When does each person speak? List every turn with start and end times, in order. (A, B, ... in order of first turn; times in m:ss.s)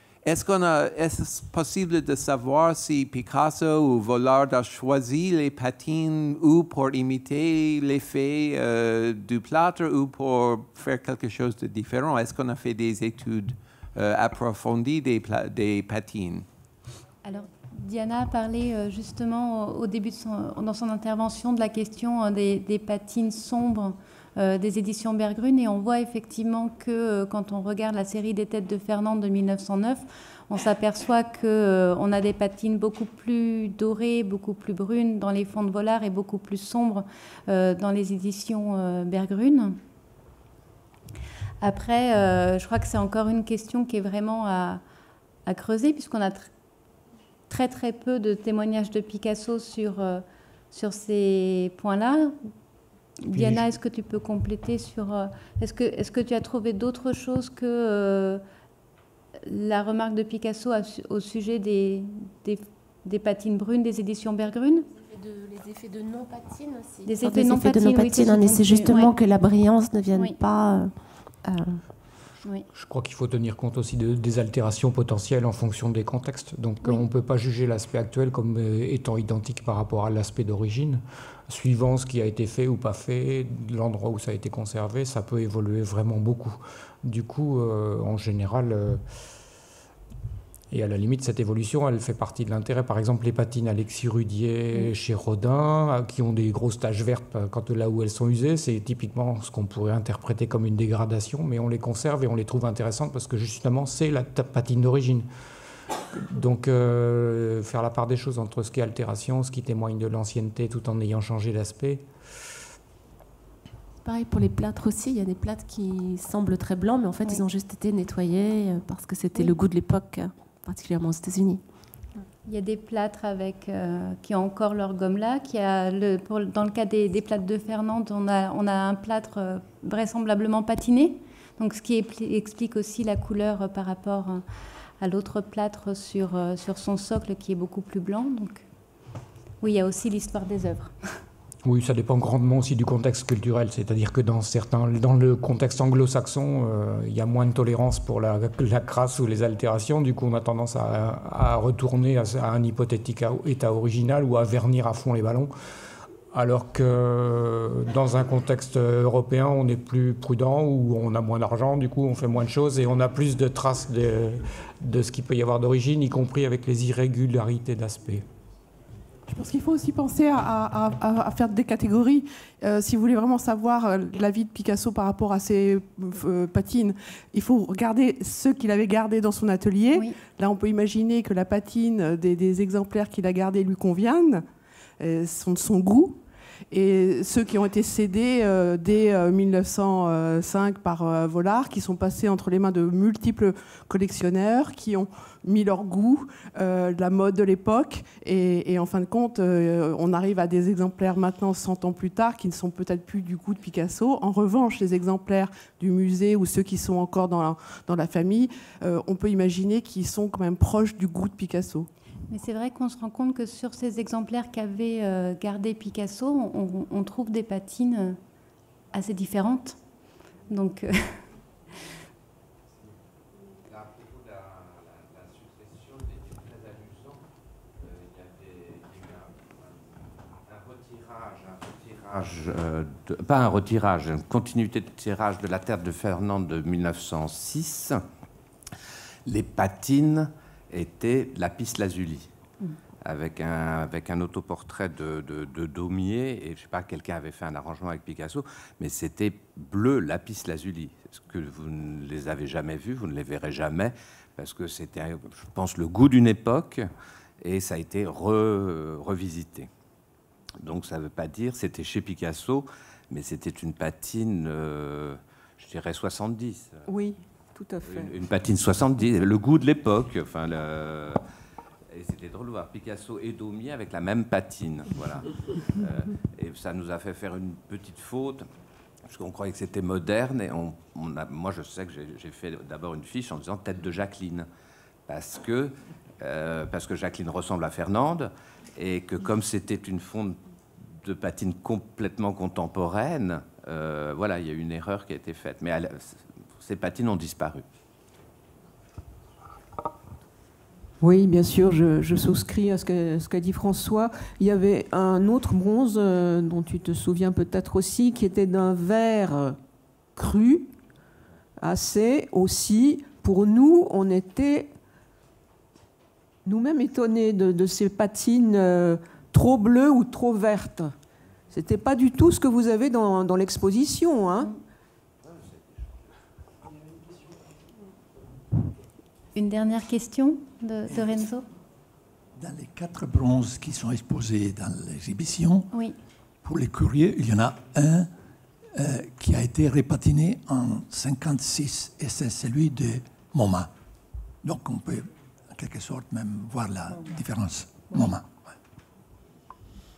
0:00.2-0:16.5 A
0:17.2-0:39.8 B
0:41.6-0:44.8 B
0:45.4-0:46.5 B
0:47.5-0:52.5 B
0:53.2-0:58.4 B
0:59.5-1:04.9 B
1:04.9-1:11.8 C
1:07.0-1:09.1 B
1:12.7-1:29.0 D
1:30.7-1:45.3 D
1:46.1-1:52.1 D
1:54.0-2:01.6 C
2:02.4-2:14.4 B
2:15.0-2:18.6 B
2:19.6-2:21.0 B
2:21.6-2:35.5 D
2:36.3-2:48.3 D
2:49.3-3:04.4 E
3:05.0-3:31.9 E
3:32.3-3:38.2 B
3:38.9-3:39.8 B
3:40.5-3:41.2 B
3:43.6-3:47.2 F
3:47.8-3:58.0 F
3:59.3-4:02.3 F
4:03.0-4:16.9 F
4:17.4-4:19.7 F
4:20.6-4:26.8 F
4:26.9-4:28.2 G
4:27.9-4:31.2 F
4:31.9-4:38.5 F
4:39.1-4:44.5 F
4:45.1-4:57.6 F
5:01.0-5:09.6 G
5:10.2-5:10.7 G
5:11.6-5:14.7 G
5:16.4-5:20.9 G
5:21.5-5:24.5 G
5:25.2-5:25.9 F
5:29.4-5:31.5 B
5:32.4-5:35.7 H
5:35.7-5:36.0 B
5:36.4-5:38.1 H
5:38.8-5:43.7 H
5:44.4-5:48.5 H